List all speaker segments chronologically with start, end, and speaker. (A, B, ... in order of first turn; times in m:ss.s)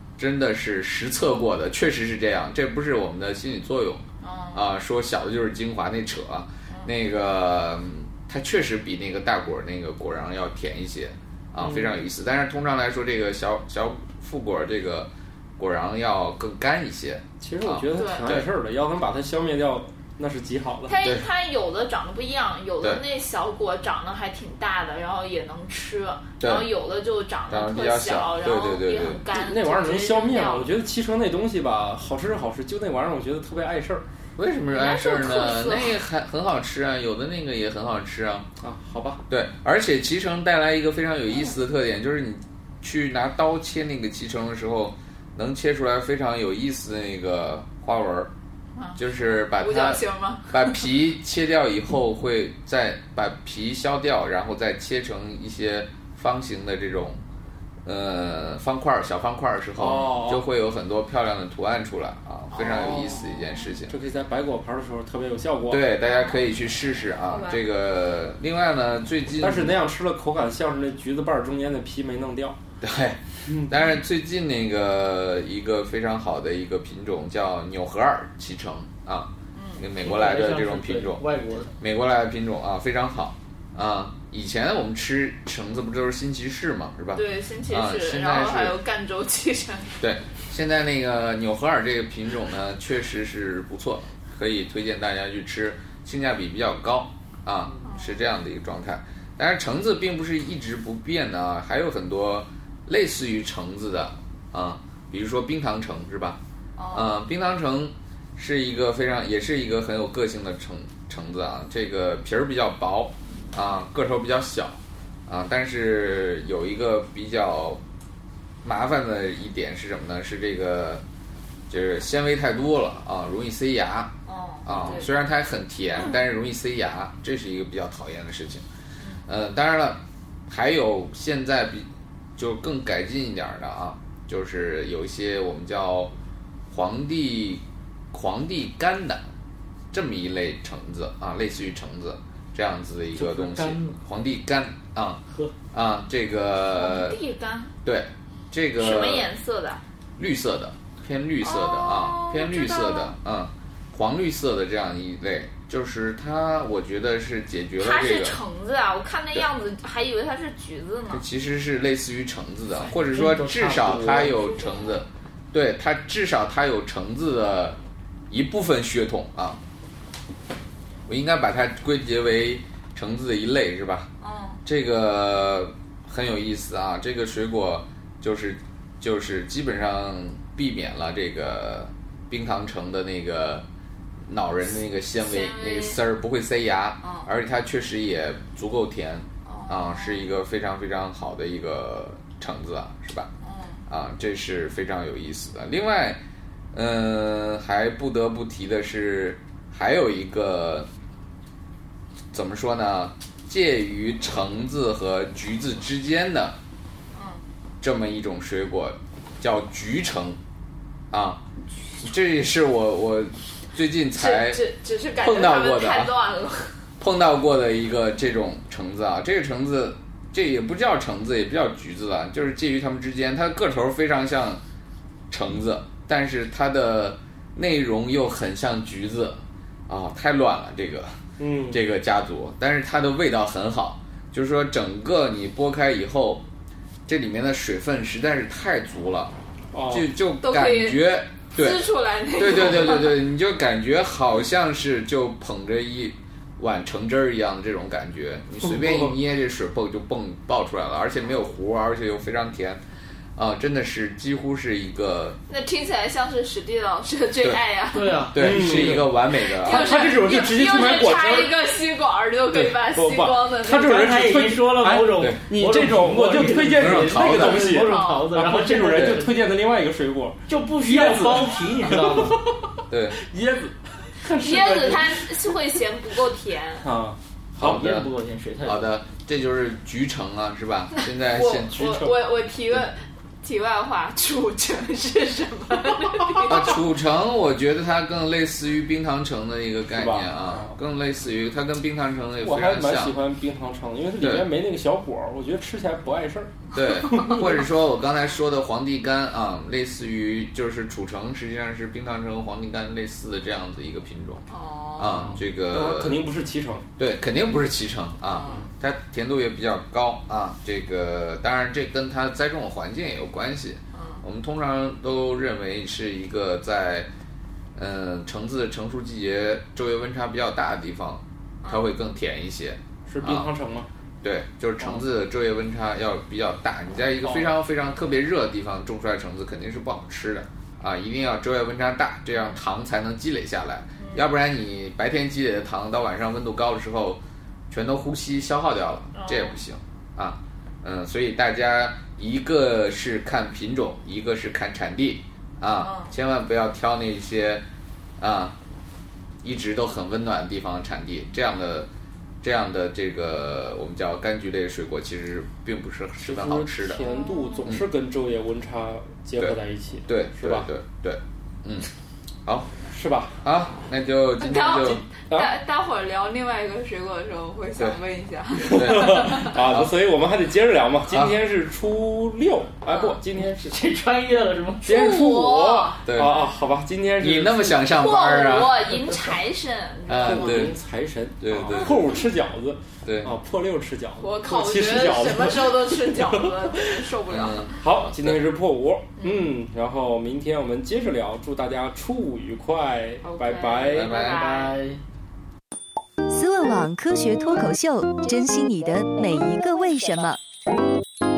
0:00.2-0:18.5 A
0:04.2-0:04.7 B
0:11.6-0:12.0 C
0:17.4-0:21.0 C
0:18.0-0:18.3 B
0:20.9-0:30.7 B
0:26.4-0:26.7 A
0:27.5-0:29.2 A
0:29.3-0:34.0 C
0:34.4-0:38.5 A
0:34.7-0:36.0 B
0:38.6-0:39.2 C
0:39.3-0:48.3 A
0:48.8-0:49.0 B
0:49.0-0:57.2 A
0:49.5-0:50.8 B
0:57.8-1:04.0 A
0:59.8-1:00.4 C
1:02.5-1:03.2 B
1:02.7-1:03.2 C
1:03.9-1:05.8 C
1:05.7-1:09.8 A
1:06.1-1:06.4 B
1:07.3-1:07.6 B
1:09.4-1:12.6 C
1:12.8-1:21.2 A
1:13.5-1:13.7 C
1:19.5-1:19.8 B
1:20.0-1:21.7 D
1:21.8-1:28.8 A
1:27.1-1:30.0 B
1:30.0-1:46.4 A
1:37.8-1:38.2 B
1:46.8-1:47.2 B
1:46.9-1:57.8 A
1:58.6-2:01.0 A
2:01.7-2:04.1 A
2:04.3-2:05.1 B
2:04.6-2:08.6 A
2:09.0-2:09.2 B
2:09.3-2:16.1 A
2:16.7-2:19.2 A
2:19.9-2:25.2 A
2:23.1-2:24.0 D
2:25.3-2:25.5 D
2:25.7-2:27.2 A
2:26.7-2:27.7 B
2:27.8-2:29.3 A
2:28.8-2:29.8 B
2:30.2-2:38.4 A
2:31.4-2:33.2 B
2:37.8-2:41.2 B
2:41.1-2:47.8 A
2:42.8-2:44.4 D
2:44.2-2:45.0 B
2:48.3-2:49.6 A
2:51.1-2:54.1 A
2:54.2-2:54.6 B
2:54.6-3:03.7 A
3:04.3-3:13.3 A
3:05.2-3:06.0 B
3:07.0-3:07.3 B
3:09.5-3:10.3 B
3:13.4-3:13.8 B
3:13.9-3:16.2 A
3:16.7-3:20.9 A
3:22.3-3:26.6 A
3:27.1-3:27.4 B
3:27.8-3:30.4 A
3:31.1-3:31.4 A
3:32.0-3:34.6 A
3:34.1-3:36.8 B
3:35.2-3:36.2 A
3:37.0-3:44.6 A
3:45.3-3:56.4 A
3:51.4-3:51.8 C
3:57.1-3:59.4 A
3:59.7-4:00.1 C
3:59.9-4:12.8 A
4:00.4-4:03.2 B
4:13.4-4:15.4 A
4:15.5-4:18.3 B
4:17.9-4:19.0 D
4:18.3-4:20.0 A
4:18.4-4:21.5 C
4:19.3-4:24.0 B
4:22.5-4:35.3 C
4:23.9-4:29.4 D
4:26.8-4:27.7 A
4:27.7-4:28.3 B
4:28.9-4:29.2 A
4:30.5-4:32.4 D
4:32.9-4:33.2 A
4:34.4-4:35.1 D
4:34.4-4:36.9 B
4:36.8-4:37.8 C
4:37.6-4:38.9 D
4:37.6-4:38.1 A
4:38.6-4:42.0 A
4:41.3-4:46.8 B
4:41.8-4:42.2 C
4:46.4-4:53.2 A
4:49.9-4:50.8 C
4:52.4-4:57.6 C
4:54.2-4:54.5 A
4:56.7-5:04.4 A
5:04.5-5:05.4 B
5:05.0-5:06.2 A
5:05.2-5:06.9 C
5:07.0-5:17.1 A
5:08.3-5:08.6 B
5:13.9-5:14.2 B
5:17.8-5:23.5 A
5:23.1-5:23.9 C
5:24.2-5:47.6 A
5:27.1-5:27.5 C
5:32.3-5:32.6 B
5:34.0-5:34.3 B
5:39.1-5:39.6 B
5:45.8-5:46.1 B
5:48.2-5:48.6 A
5:49.4-5:51.9 A
5:52.4-5:57.1 A
5:56.2-6:00.7 C
5:56.9-5:57.7 B
5:59.4-6:01.9 A
6:02.4-6:02.8 A
6:02.8-6:03.4 C
6:03.4-6:05.0 A
6:04.4-6:09.6 B
6:04.7-6:05.5 C
6:08.6-6:13.8 C
6:08.8-6:09.9 A
6:11.1-6:11.4 A
6:12.9-6:13.2 B
6:13.6-6:14.9 D
6:14.8-6:17.9 C
6:14.8-6:16.6 B
6:16.0-6:16.4 A
6:17.2-6:19.2 A
6:17.9-6:20.7 B
6:20.1-6:20.7 A
6:20.2-6:27.1 C
6:21.4-6:22.0 A
6:21.7-6:22.1 B
6:23.0-6:23.4 A
6:24.2-6:27.9 B
6:27.3-6:28.3 A
6:27.8-6:34.1 C
6:29.2-6:29.5 B
6:33.2-6:34.8 B
6:33.9-6:34.4 A
6:34.1-6:35.0 D
6:36.3-6:40.4 E